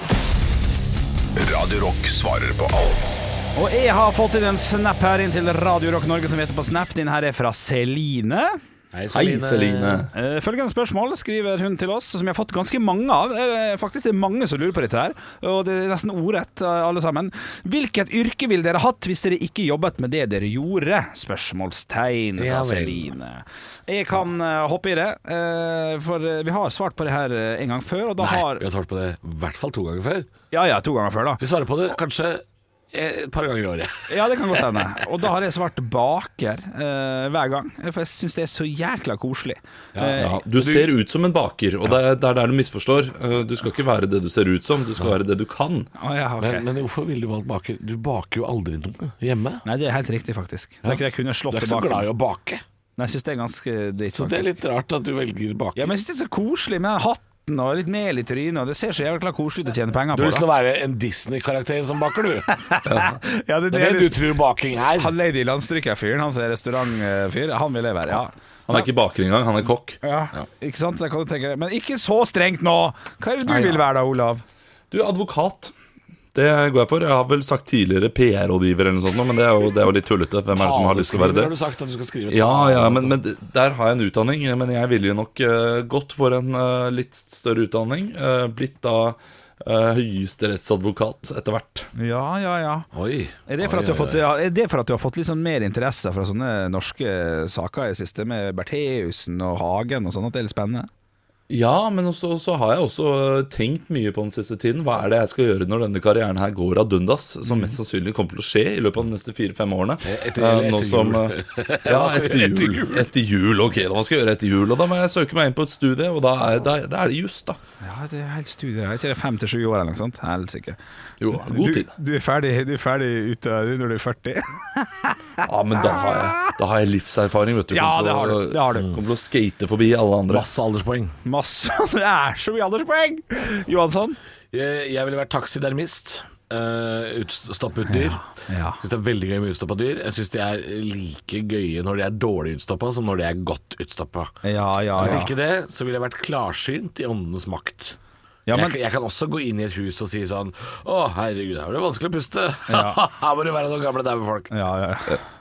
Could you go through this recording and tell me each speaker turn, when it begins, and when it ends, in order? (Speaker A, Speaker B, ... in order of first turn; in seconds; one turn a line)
Speaker A: 1.4-3.4
Speaker B: 3.5-8.6
Speaker C: 8.9-10.1
Speaker D: 9.1-10.1
Speaker B: 10.1-28.6
Speaker C: 22.4-23.1
Speaker C: 28.2-30.3
Speaker B: 30.5-31.4
Speaker C: 31.4-34.6
Speaker B: 34.1-40.4
Speaker C: 39.9-40.9
Speaker D: 40.1-45.9
Speaker B: 46.0-46.6
Speaker C: 46.4-49.6
Speaker B: 49.6-52.0
Speaker C: 50.8-52.6
Speaker B: 53.0-54.5
Speaker C: 54.1-55.9
Speaker B: 55.8-60.4
Speaker C: 60.1-62.5
Speaker B: 62.5-64.2
Speaker D: 62.9-63.2
Speaker C: 63.7-65.1
Speaker B: 65.0-68.8
Speaker D: 68.7-70.0
Speaker B: 70.0-74.4
Speaker D: 73.5-73.8
Speaker D: 74.9-75.7
Speaker D: 76.3-81.5
Speaker C: 80.5-83.2
Speaker D: 82.3-91.9
Speaker B: 91.9-92.9
Speaker C: 92.9-94.2
Speaker B: 93.5-100.9
Speaker D: 101.5-117.6
Speaker C: 110.0-113.1
Speaker B: 117.8-120.8
Speaker D: 121.2-121.9
Speaker B: 121.3-125.2
Speaker D: 125.4-130.5
Speaker B: 126.0-126.5
Speaker B: 127.7-128.9
Speaker C: 130.3-131.1
Speaker B: 131.2-134.2
Speaker C: 134.5-144.3
Speaker B: 137.9-138.8
Speaker B: 144.4-145.3
Speaker C: 144.9-148.0
Speaker B: 148.5-148.8
Speaker C: 148.5-154.5
Speaker B: 152.7-153.0
Speaker B: 154.5-155.2